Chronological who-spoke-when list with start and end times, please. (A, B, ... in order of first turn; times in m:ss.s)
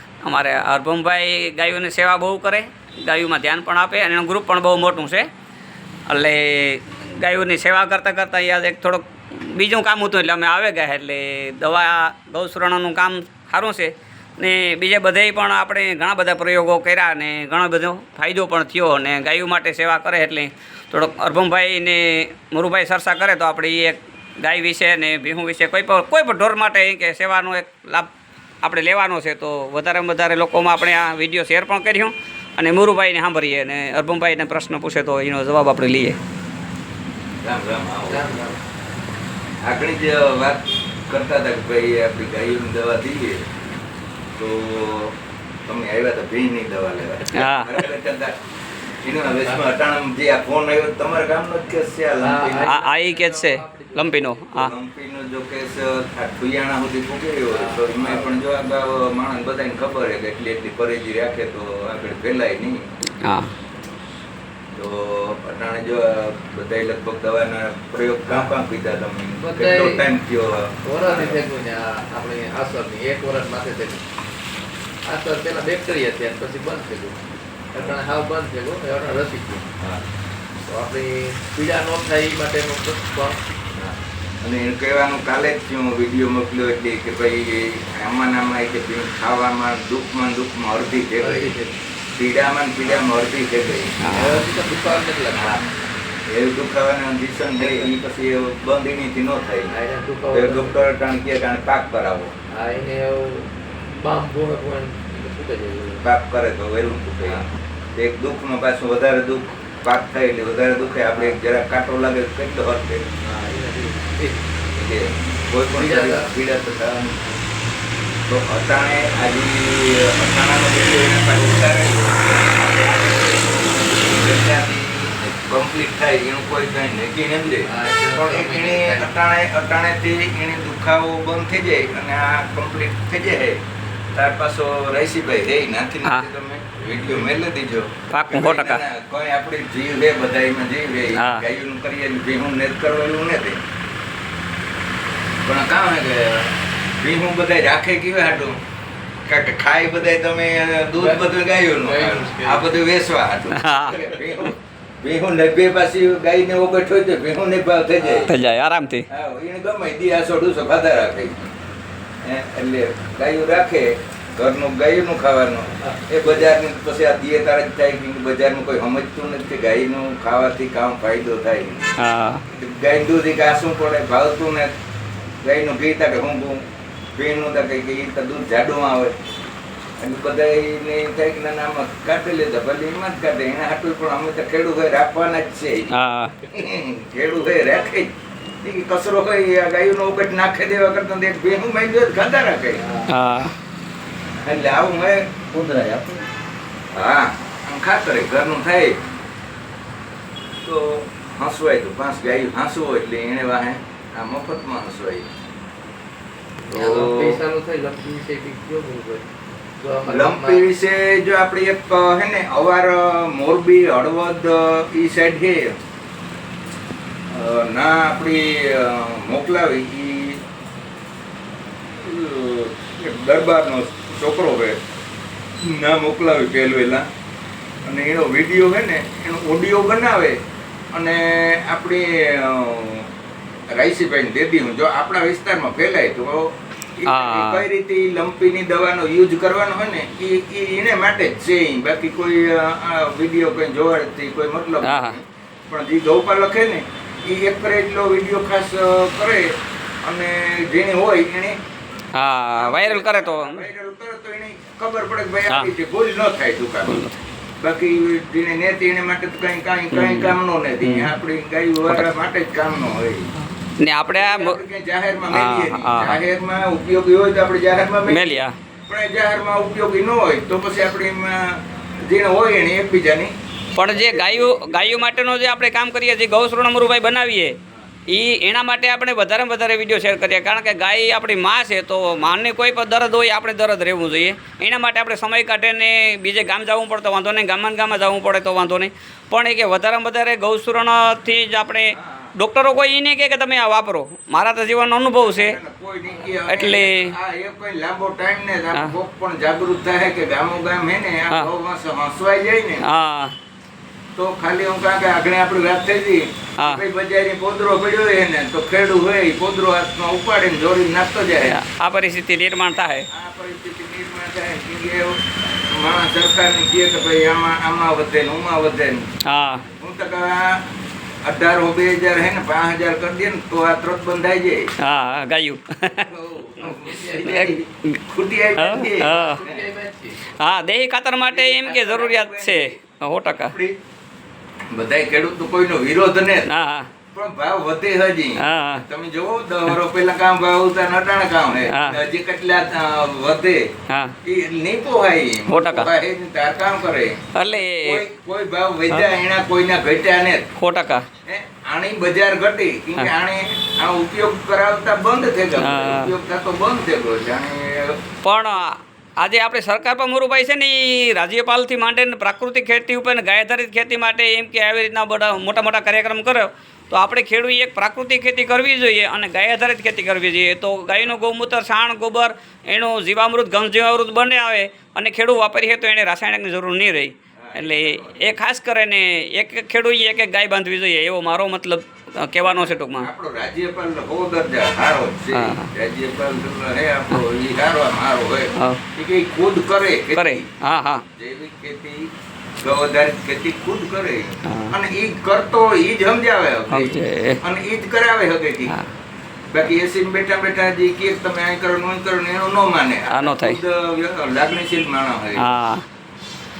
0:00.2-0:05.3 A
0:06.1-0:28.1 A
0:28.6-0:36.2 A
0:37.4-0:38.4 B
0:38.1-0:38.6 C
0:39.6-0:43.4 B
0:44.4-0:45.2 B
0:45.7-0:48.4 B
0:47.3-0:47.8 A
0:49.0-0:52.7 B
0:52.2-0:54.4 C
0:52.6-0:54.7 A
0:54.5-1:02.9 B
0:57.5-0:58.4 C
1:03.2-1:03.5 A
1:04.7-1:11.4 B
1:08.3-1:08.5 C
1:09.4-1:10.0 C
1:10.8-1:14.0 C
1:15.0-1:17.2 C
1:17.7-1:19.7 C
1:19.8-1:20.0 B
1:20.7-1:23.4 C
1:23.8-1:31.5 B
1:31.2-1:31.8 C
1:32.1-1:34.0 B
1:34.0-1:34.4 A
1:34.1-1:35.6 C
1:35.3-1:35.7 B
1:36.3-1:39.8 B
1:37.6-1:37.9 C
1:39.7-1:40.9 C
1:40.3-1:42.3 B
1:42.5-1:46.0 C
1:46.0-1:53.2 B
1:51.0-1:51.4 C
1:53.2-1:54.5 C
1:54.7-1:57.2 B
1:55.8-1:56.4 C
1:58.3-2:13.6 B
2:07.6-2:09.1 C
2:14.1-2:23.6 B
2:18.1-2:18.8 A
2:21.2-2:21.4 A
2:25.4-2:28.6 B
2:29.3-2:38.3 B
2:31.0-2:32.7 C
2:33.5-2:34.2 A
2:38.3-2:39.1 A
2:39.1-2:41.5 B
2:42.2-2:51.8 B
2:45.8-2:46.5 C
2:52.0-2:52.4 A
2:52.5-2:54.7 B
2:55.4-2:56.6 B
2:57.2-2:59.2 B
3:00.0-3:05.9 B
3:05.9-3:06.4 A
3:06.4-3:08.1 B
3:08.6-3:13.0 B
3:13.1-3:13.6 A
3:14.4-3:16.0 B
3:16.9-3:19.0 B
3:20.6-3:25.3 B
3:26.7-3:29.3 C
3:26.7-3:27.4 B
3:29.8-3:30.7 C
3:30.1-3:35.7 B
3:37.3-3:40.4 B
3:41.9-3:44.8 B
3:45.6-3:47.1 B
3:47.8-3:50.4 B
3:50.9-3:53.1 B
3:53.7-4:11.6 B
3:57.1-3:57.7 A
4:04.8-4:05.2 A
4:12.1-4:13.6 A
4:12.6-4:17.0 B
4:15.5-4:15.7 A
4:16.9-4:17.2 A
4:17.6-4:23.3 B
4:19.9-4:21.1 A
4:23.8-4:24.6 A
4:24.1-4:28.3 B
4:25.3-4:26.2 A
4:28.1-4:28.6 A
4:28.9-4:35.2 B
4:33.8-4:37.6 A
4:38.1-4:55.6 A
4:51.9-4:52.4 B
4:55.2-5:02.9 B
4:56.3-4:57.1 A
5:02.8-5:03.4 A
5:04.2-5:11.6 B
5:11.4-5:13.1 A
5:13.1-5:19.1 B
5:19.2-5:19.6 A
5:19.7-5:20.6 B
5:21.2-5:24.7 B
5:24.8-5:26.1 A
5:26.0-5:29.6 B
5:26.7-5:27.6 A
5:28.6-5:29.4 A
5:29.1-5:30.2 C
5:30.4-5:33.5 A
5:31.3-5:32.8 B
5:33.4-5:33.8 B
5:34.7-5:36.5 B
5:36.5-5:36.9 A
5:37.1-5:43.7 B
5:38.4-5:38.8 A
5:41.6-5:42.0 A
5:43.9-5:44.1 A
5:44.2-5:50.5 B
5:45.5-5:45.9 A
5:47.4-5:48.0 A
5:50.6-5:51.1 A
5:51.2-5:58.0 B
5:55.6-5:56.1 A
5:58.2-6:23.1 A
6:17.4-6:18.4 B
6:22.4-6:30.5 B
6:25.3-6:25.7 A
6:28.6-6:28.8 A
6:30.2-6:31.0 A
6:31.2-6:32.1 B
6:32.6-6:38.8 B
6:34.5-6:34.7 A
6:36.7-6:37.4 A
6:39.5-6:45.5 B
6:43.1-6:43.6 A
6:45.4-6:45.8 A